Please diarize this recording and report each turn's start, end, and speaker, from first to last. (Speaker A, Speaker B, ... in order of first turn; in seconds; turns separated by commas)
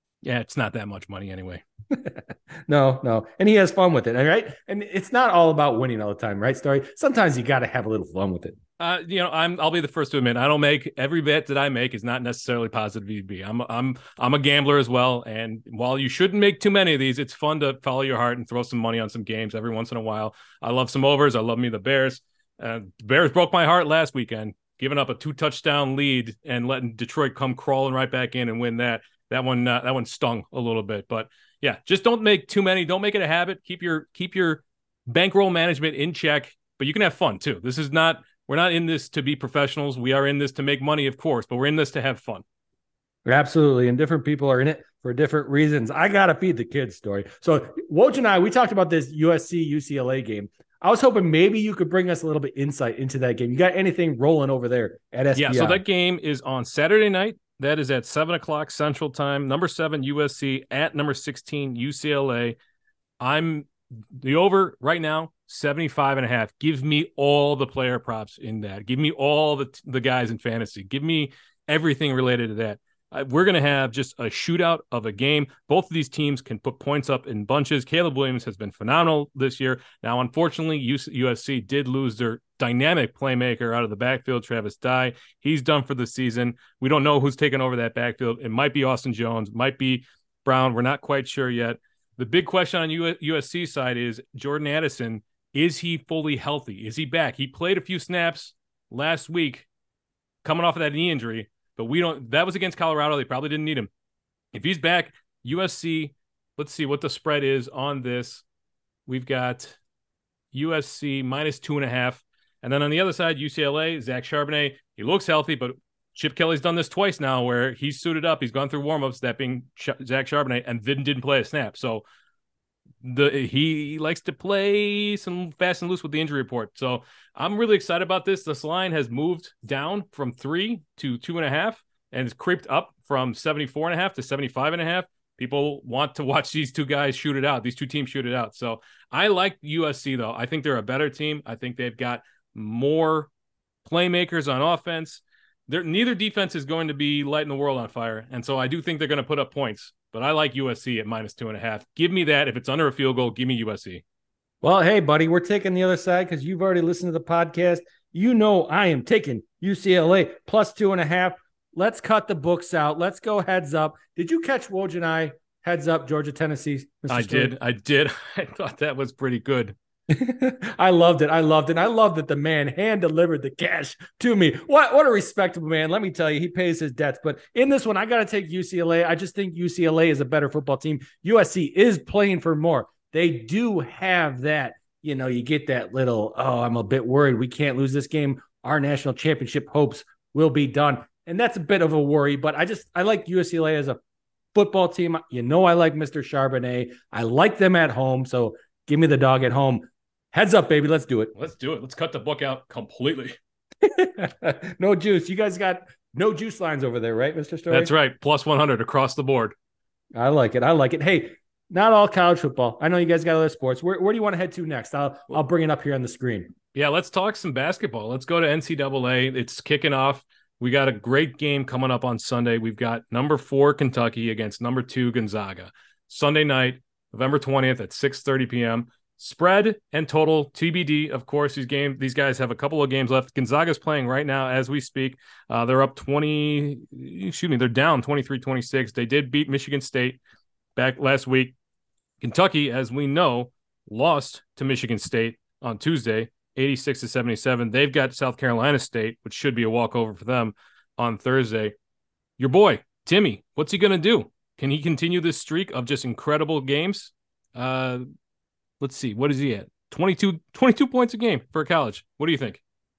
Speaker A: 0.2-1.6, Speaker B: 1.9-8.6, Speaker A: 8.8-42.4, Speaker B: 43.2-55.8, Speaker A: 55.4-62.6, Speaker A: 63.2-99.7, Speaker A: 100.4-103.9, Speaker A: 104.5-108.4, Speaker A: 109.1-109.8, Speaker A: 110.5-122.0, Speaker A: 123.0-143.3, Speaker A: 143.8-154.0, Speaker B: 154.6-167.6, Speaker A: 167.1-169.8, Speaker B: 170.1-194.0, Speaker B: 194.6-201.3, Speaker A: 201.3-203.4, Speaker B: 203.8-207.9, Speaker A: 207.7-209.6, Speaker B: 210.2-216.5, Speaker A: 216.7-240.2, Speaker A: 240.8-241.6, Speaker A: 242.2-251.7, Speaker A: 252.4-258.0, Speaker A: 258.8-262.6